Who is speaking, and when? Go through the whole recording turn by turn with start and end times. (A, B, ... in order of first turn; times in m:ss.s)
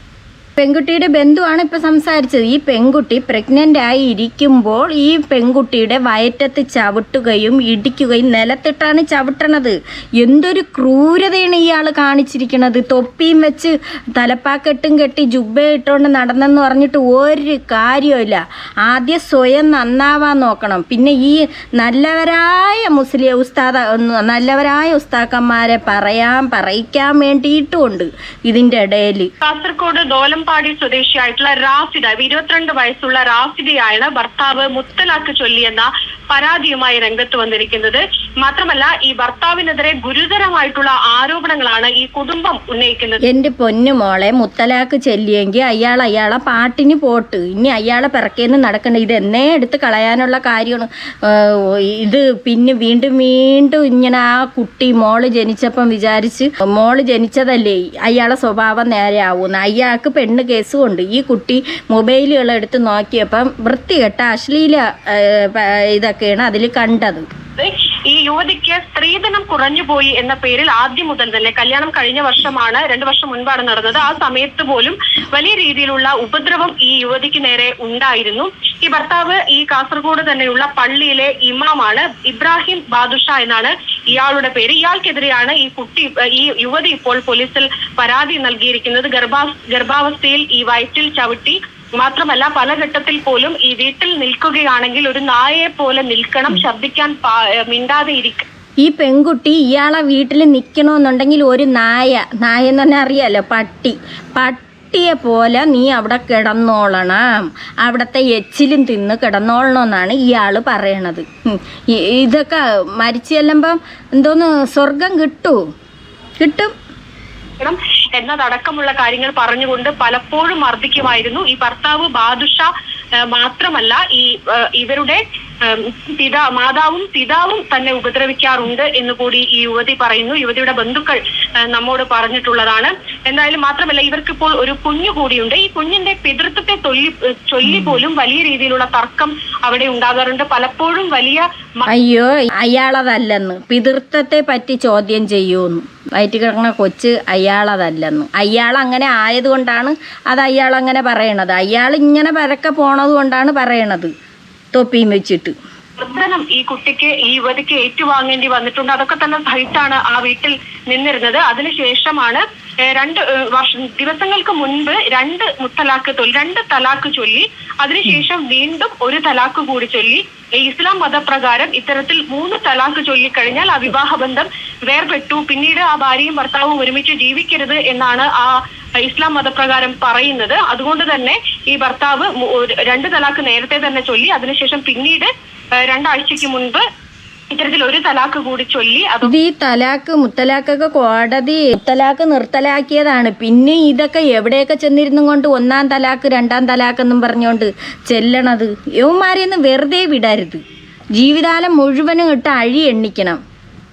0:00.6-0:29.3 A
0:29.4-0:43.2 B
0:43.2-1:07.2 A
1:07.6-1:38.4 B
1:38.8-1:47.3 A
1:47.8-1:51.3 A
1:51.9-1:55.6 A
1:56.4-1:56.7 A
1:57.6-2:02.7 B
2:03.3-2:11.2 B
2:11.7-2:21.9 B
2:21.9-2:34.1 A
2:34.8-2:35.5 A
2:36.0-3:05.3 B
3:05.8-3:06.8 B
3:07.5-3:09.3 B
3:09.2-3:20.6 A
3:21.2-3:23.4 A